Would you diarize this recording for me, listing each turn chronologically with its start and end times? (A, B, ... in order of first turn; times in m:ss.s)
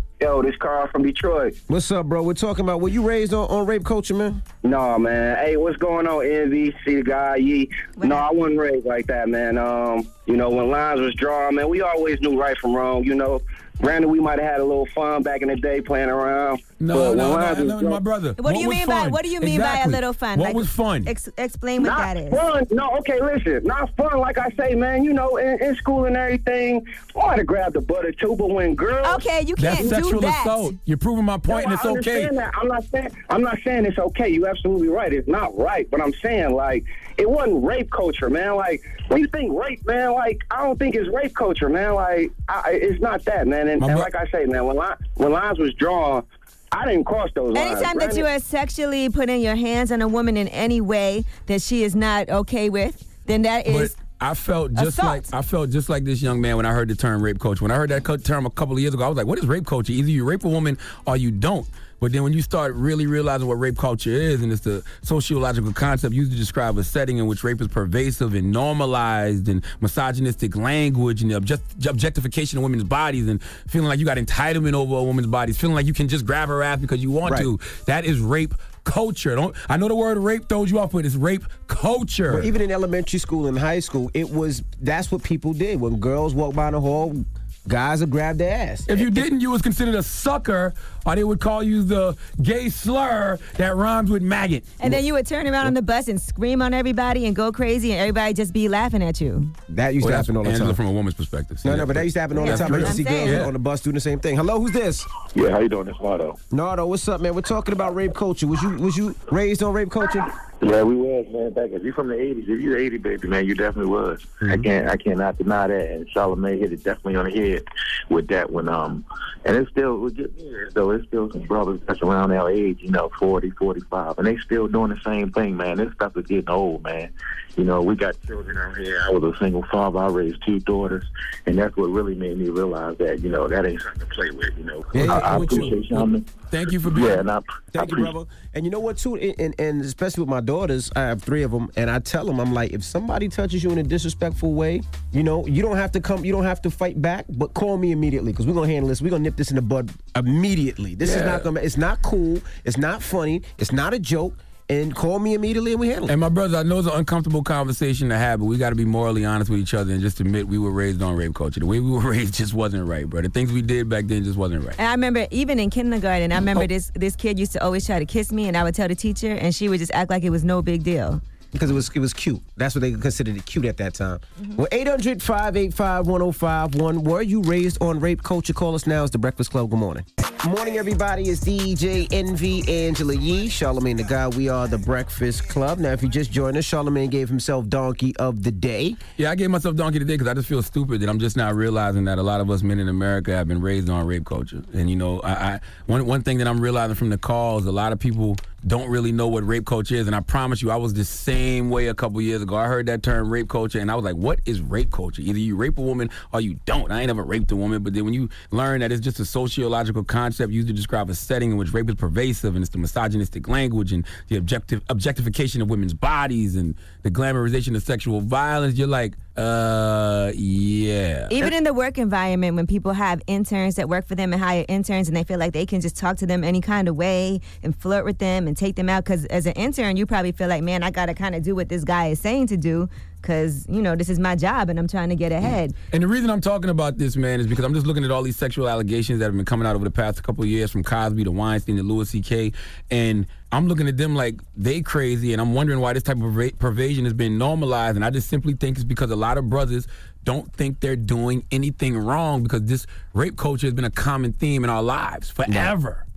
0:00.2-0:01.6 A
0:01.7-0:04.4 B
0:04.6-0:18.0 A
0:08.0-0:08.3 C
0:16.8-0:21.1 D
0:18.4-0:22.4 C
0:21.8-0:29.2 A
0:29.0-0:30.7 C
0:29.6-0:32.4 D
0:31.5-0:48.3 A
0:43.8-0:44.1 D
0:47.5-0:53.9 C
0:53.7-1:22.5 D
0:54.8-0:55.3 C
1:17.2-1:17.5 B
1:22.3-1:29.3 B
1:28.9-1:34.8 D
1:34.8-1:39.5 C
1:39.7-1:40.8 B
1:40.0-1:43.5 D
1:41.6-1:45.1 B
1:42.3-1:43.4 C
1:45.4-1:46.4 E
1:46.5-1:50.3 B
1:50.6-2:16.2 E
1:54.4-1:54.7 B
2:15.0-2:17.3 D
2:15.0-2:15.7 B
2:16.8-2:18.1 E
2:17.7-2:36.2 B
2:31.0-2:31.5 D
2:36.1-2:44.8 D
2:44.8-2:51.2 C
2:51.5-3:09.0 B
3:09.2-3:41.5 D
3:41.3-3:55.7 C
3:55.9-4:16.0 D
4:15.5-4:15.7 B